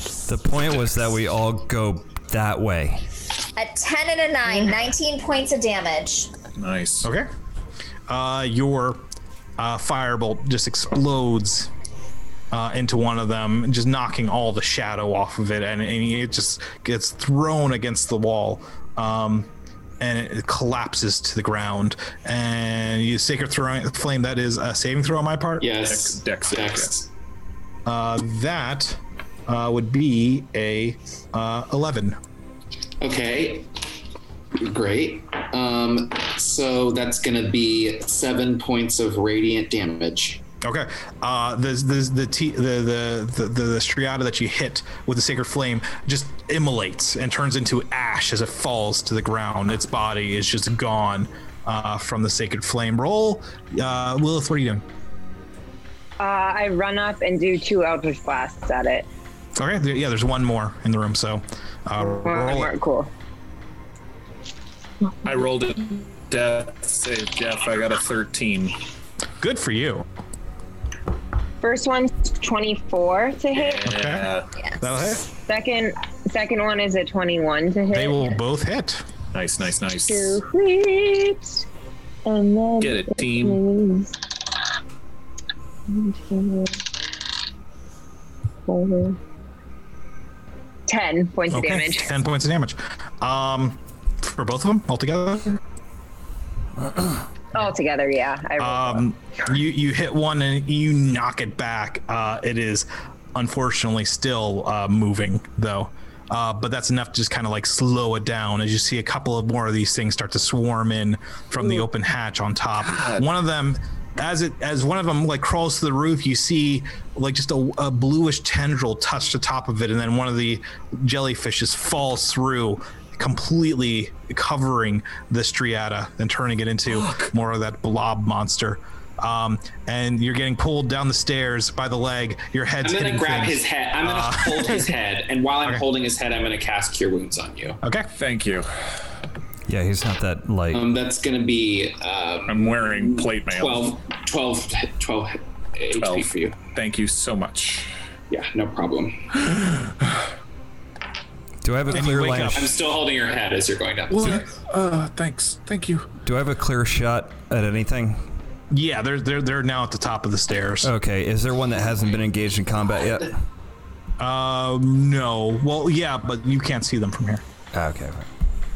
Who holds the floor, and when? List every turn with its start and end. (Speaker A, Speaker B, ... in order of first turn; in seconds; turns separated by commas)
Speaker A: 0.2-3.0, Speaker B: 3.5-6.3, Speaker C: 6.6-7.1, Speaker D: 7.0-7.3, Speaker D: 8.1-9.0, Speaker D: 9.6-11.7, Speaker D: 12.5-25.6, Speaker E: 25.6-27.1, Speaker C: 25.9-27.0, Speaker D: 27.9-32.2, Speaker E: 33.0-33.7, Speaker E: 34.5-40.4, Speaker D: 40.6-54.8, Speaker F: 56.2-59.1, Speaker D: 59.5-62.7, Speaker F: 62.0-63.1, Speaker C: 65.2-68.8, Speaker D: 69.4-70.0, Speaker F: 71.6-73.9, Speaker C: 73.5-74.5, Speaker D: 73.8-74.3, Speaker D: 74.8-75.3, Speaker F: 75.5-78.4, Speaker D: 77.9-79.0, Speaker C: 79.3-80.4, Speaker F: 80.1-81.6, Speaker F: 82.2-84.1, Speaker C: 82.8-83.6, Speaker F: 85.9-86.8, Speaker F: 88.7-89.2, Speaker F: 90.9-92.1, Speaker D: 91.5-95.6, Speaker F: 97.5-99.0, Speaker D: 98.6-134.9, Speaker C: 112.8-113.2, Speaker C: 126.9-127.3, Speaker E: 132.8-137.8, Speaker D: 137.8-138.1, Speaker C: 138.1-138.7, Speaker A: 139.7-140.8, Speaker E: 140.7-146.6, Speaker C: 142.5-144.0, Speaker C: 146.0-147.9, Speaker E: 148.3-149.2, Speaker C: 149.5-149.8, Speaker A: 151.6-152.7, Speaker D: 151.9-152.7, Speaker E: 152.5-154.4, Speaker C: 154.1-156.1, Speaker A: 156.2-158.2, Speaker D: 158.7-160.9, Speaker A: 160.8-163.4, Speaker D: 164.2-167.4, Speaker A: 167.7-168.3